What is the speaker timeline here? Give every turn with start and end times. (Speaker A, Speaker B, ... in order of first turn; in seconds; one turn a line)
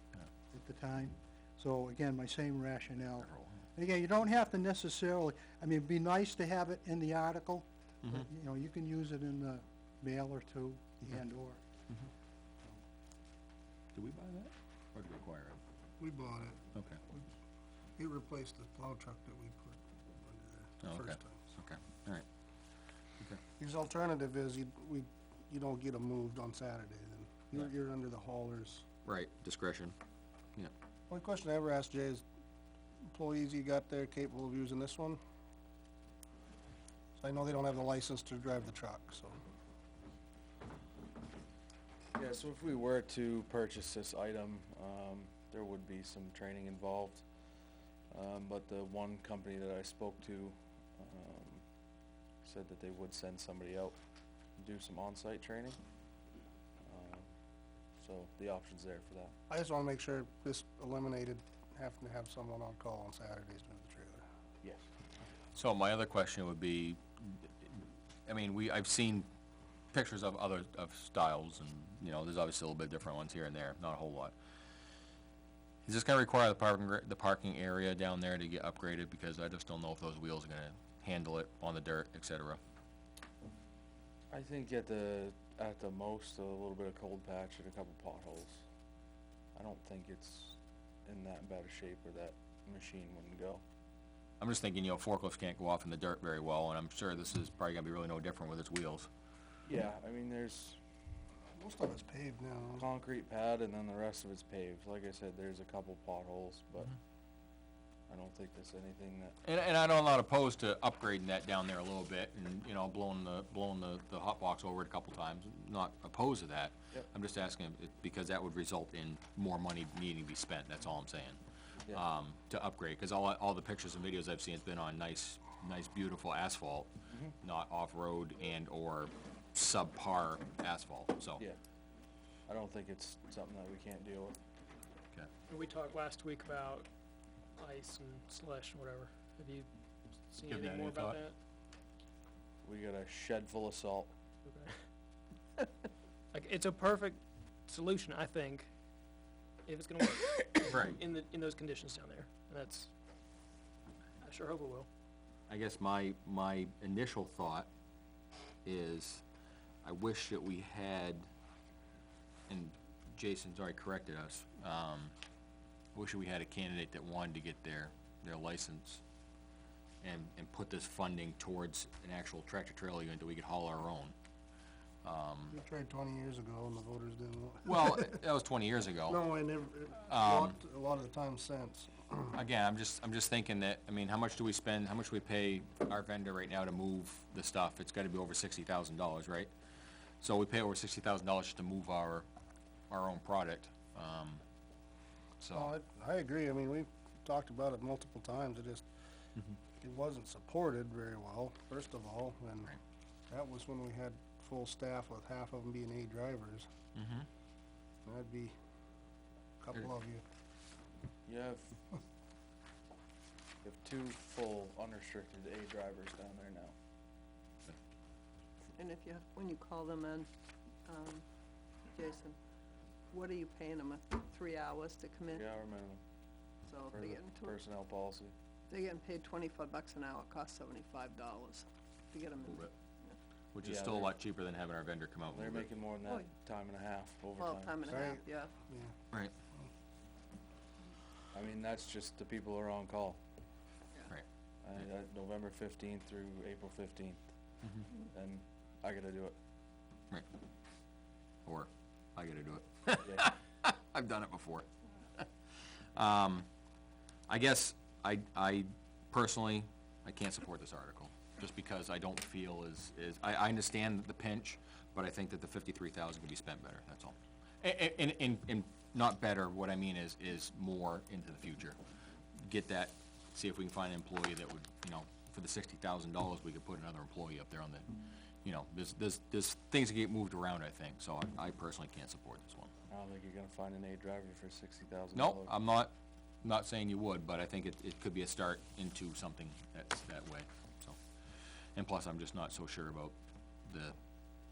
Speaker A: 0.5-11.6
Speaker B: 3.2-3.6
Speaker B: 13.9-15.6
Speaker C: 16.0-16.6
Speaker B: 16.7-17.0
Speaker C: 18.0-21.4
Speaker B: 20.8-22.2
Speaker C: 23.6-28.8
Speaker B: 29.0-29.9
Speaker C: 31.1-32.2
Speaker C: 33.1-35.2
Speaker C: 37.2-39.4
Speaker D: 42.1-47.2
Speaker D: 48.1-51.6
Speaker D: 52.4-54.0
Speaker D: 54.6-55.8
Speaker D: 56.8-57.3
Speaker D: 58.0-59.3
Speaker C: 59.5-64.2
Speaker B: 65.5-69.3
Speaker B: 69.9-74.3
Speaker B: 75.8-82.6
Speaker D: 84.3-88.6
Speaker D: 89.5-93.6
Speaker B: 94.4-99.1
Speaker D: 99.7-100.8
Speaker C: 101.6-102.9
Speaker D: 102.8-107.0
Speaker D: 108.1-109.3
Speaker B: 109.4-121.4
Speaker B: 121.9-126.9
Speaker B: 127.4-131.4
Speaker D: 132.5-134.4
Speaker E: 135.5-136.9
Speaker E: 137.6-139.7
Speaker E: 140.3-141.3
Speaker B: 140.5-141.2
Speaker D: 142.6-144.1
Speaker E: 144.4-144.7
Speaker E: 146.3-148.7
Speaker E: 149.7-152.9
Speaker B: 150.7-151.0
Speaker E: 154.2-154.9
Speaker B: 155.5-157.7
Speaker B: 158.6-159.2
Speaker B: 159.8-161.3
Speaker B: 162.5-165.1
Speaker B: 165.9-169.0
Speaker B: 170.0-174.1
Speaker B: 175.0-175.6
Speaker C: 175.5-178.2
Speaker B: 177.7-179.2
Speaker C: 179.1-182.3
Speaker B: 180.1-180.6
Speaker B: 182.3-189.5
Speaker B: 190.2-192.2
Speaker B: 192.9-194.4
Speaker B: 195.4-195.7
Speaker C: 195.5-198.8
Speaker C: 199.8-202.8
Speaker C: 203.3-206.7
Speaker B: 206.9-207.3
Speaker C: 208.0-208.5
Speaker C: 209.6-210.2
Speaker D: 211.2-211.8
Speaker D: 213.6-216.7
Speaker F: 218.8-220.3
Speaker F: 220.8-221.2
Speaker F: 221.9-222.4
Speaker F: 223.1-225.4
Speaker D: 225.3-226.0
Speaker F: 226.6-227.6
Speaker D: 226.9-228.3
Speaker F: 228.7-233.2
Speaker B: 233.5-235.7
Speaker D: 233.6-234.1
Speaker D: 235.3-237.8
Speaker F: 237.3-238.5
Speaker C: 237.9-238.9
Speaker D: 241.3-243.2
Speaker D: 244.6-247.2
Speaker D: 248.1-249.4
Speaker B: 251.4-256.5
Speaker D: 253.0-253.3
Speaker B: 257.3-271.8
Speaker B: 272.4-282.7
Speaker D: 282.9-285.5
Speaker B: 285.1-285.9
Speaker B: 286.4-291.0
Speaker B: 291.7-293.1
Speaker B: 293.6-293.9